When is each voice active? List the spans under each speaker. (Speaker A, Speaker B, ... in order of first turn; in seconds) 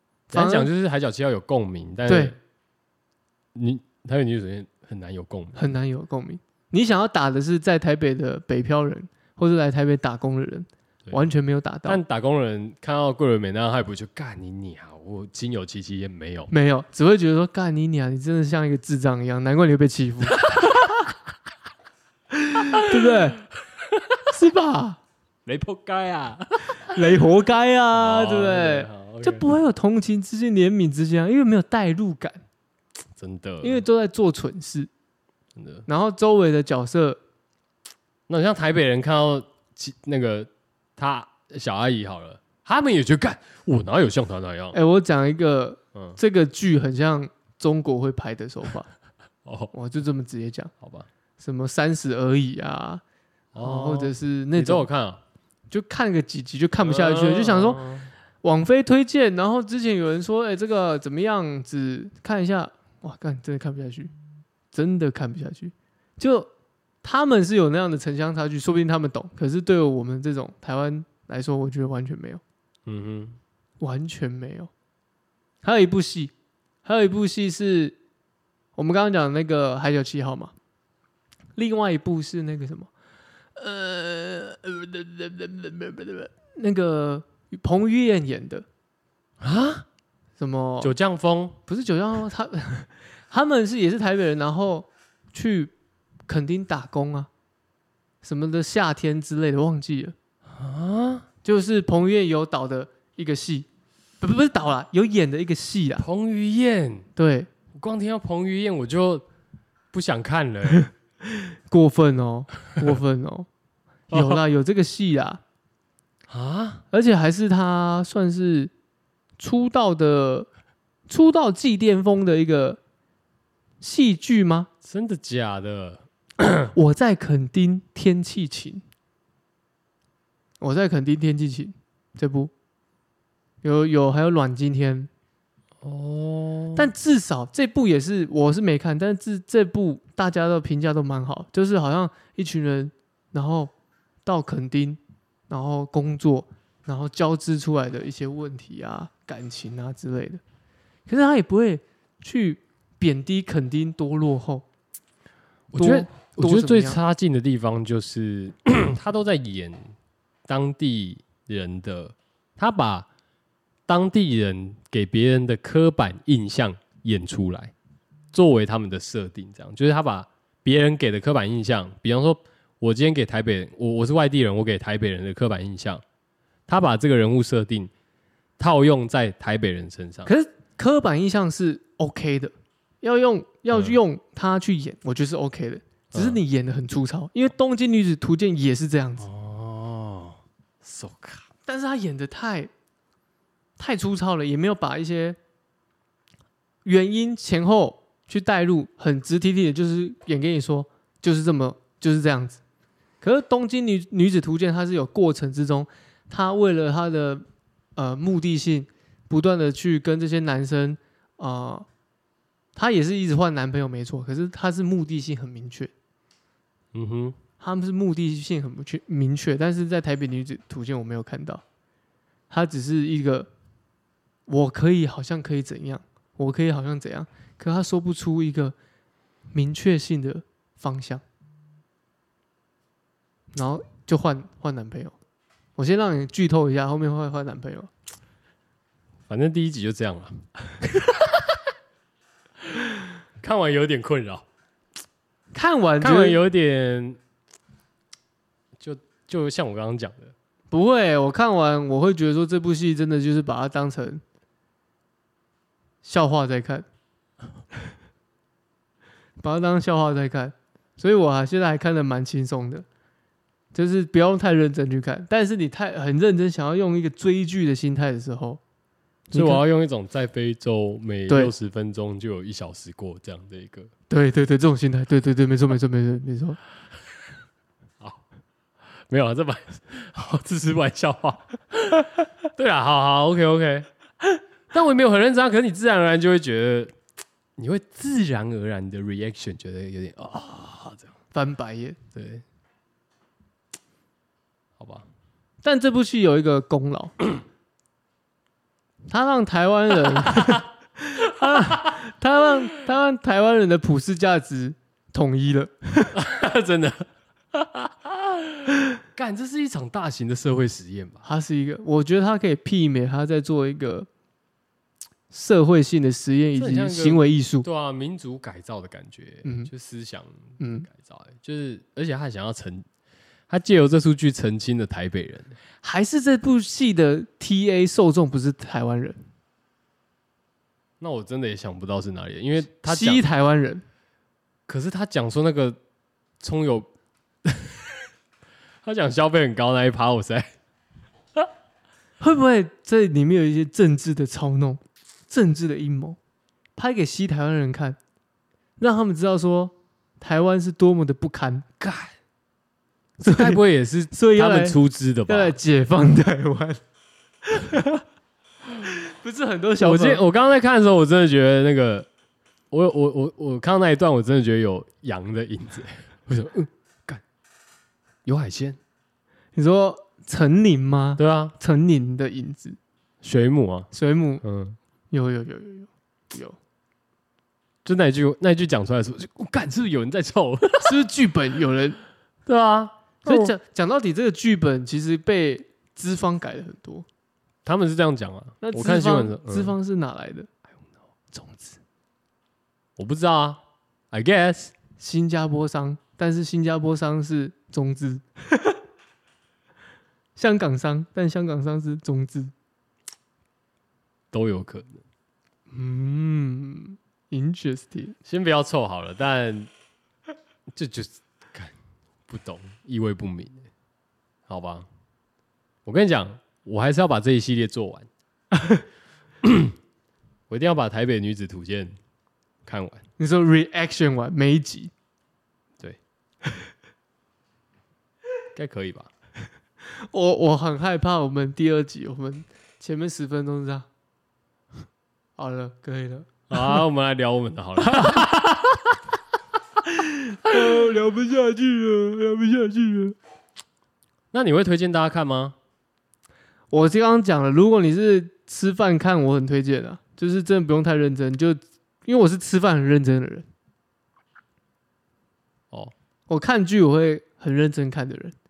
Speaker A: 0.3-0.7, 2.1-2.4, 5.5-12.0, 16.5-20.4, 22.8-23.4, 24.3-25.0, 26.9-32.4, 33.6-34.9, 35.9-37.2, 44.7-48.9, 49.7-50.7, 51.4-53.0, 53.6-54.9, 55.7-57.8, 58.4-64.1, 64.7-66.5, 67.0-72.4, 73.8-74.7, 75.6-76.3, 76.8-78.0, 78.8-80.5, 81.5-82.9, 83.5-88.7, 90.4-90.9, 91.7-95.7, 96.3-97.3, 98.2-100.1, 101.4-103.7, 104.2-106.0, 107.2-107.5, 111.5-113.5, 114.1-115.4, 116.9-118.7, 119.4-120.5, 121.1-122.8, 123.8-124.7, 126.7-128.8, 130.6-132.5, 133.6-135.1, 136.8-143.7, 144.2-150.4, 151.1-154.6, 155.7-157.0, 180.2-189.2, 191.7-192.7, 193.8-195.4, 196.8-202.6, 203.2-207.4, 207.9-211.9, 212.7-215.9, 217.6-221.6, 222.5-223.5, 224.5-228.7, 229.5-231.2, 233.5-235.1, 235.8-237.9, 245.5-246.4, 250.7-254.2, 256.0-256.9, 259.4-262.9, 263.7-268.6, 269.3-269.6, 271.3-271.5, 274.1-276.6, 291.3-292.0, 295.6-297.1, 299.1-306.1, 311.2-314.1, 315.3-317.6, 319.4-319.7, 320.6-320.9, 325.8-329.2, 332.8-333.8, 342.2-346.2, 346.8-348.0, 348.8-351.6, 353.2-356.8, 357.4-358.0, 358.8-360.2, 369.5-372.8, 373.9-374.4, 375.1-376.6, 380.8-382.0, 383.2-387.1, 388.6-390.5, 391.3-391.8, 395.0-398.7, 400.4-402.5, 405.7-408.1, 418.5-418.8, 423.2-424.9, 429.9-433.9, 435.4-436.8, 437.8-438.3, 439.9-443.1, 446.7-453.5, 456.3-458.3
Speaker B: 0.3-2.4, 3.5-5.6, 11.8-16.5, 25.4-26.9, 27.9-29.4, 33.2-33.8, 35.6-35.8, 38.3-44.8, 49.4-49.7, 50.8-51.1, 53.5-55.2, 56.8-58.1, 72.9-73.4, 89.4-89.8, 90.8-91.6, 100.5-101.3, 106.0-107.1, 107.7-109.2, 109.9-110.9, 114.1-114.4, 116.3-116.8, 124.8-126.7, 135.8-136.9, 155.7-159.9, 160.5-163.1, 163.9-167.7, 168.3-176.0, 176.7-177.9, 178.6-180.3, 186.1-186.4, 189.2-191.4, 216.9-217.4, 239.3-241.4, 243.4-244.4, 246.0-247.2, 248.8-250.3, 269.3-273.9, 279.1-283.9, 284.7-286.9, 287.6-291.1, 292.1-292.4, 294.8-295.1, 301.4-302.0, 306.1-311.2, 316.6-322.8, 323.5-325.6, 331.0-333.2, 334.7-335.8, 336.4-336.9, 337.4-337.7, 338.8-340.5, 351.8-352.1, 353.3-355.6, 359.8-362.1, 362.7-367.2, 368.2-368.8, 371.2-371.5, 373.2-373.9, 374.4-374.8, 377.8-381.0, 382.5-383.5, 387.6-389.7, 393.0-393.6, 394.1-394.7, 404.3-405.0, 408.2-409.7, 410.7-411.7, 412.3-413.6, 414.5-414.9, 415.8-418.1, 419.4-419.7, 420.5-421.9, 422.6-423.0, 428.5-429.1, 436.5-438.7, 444.3-445.6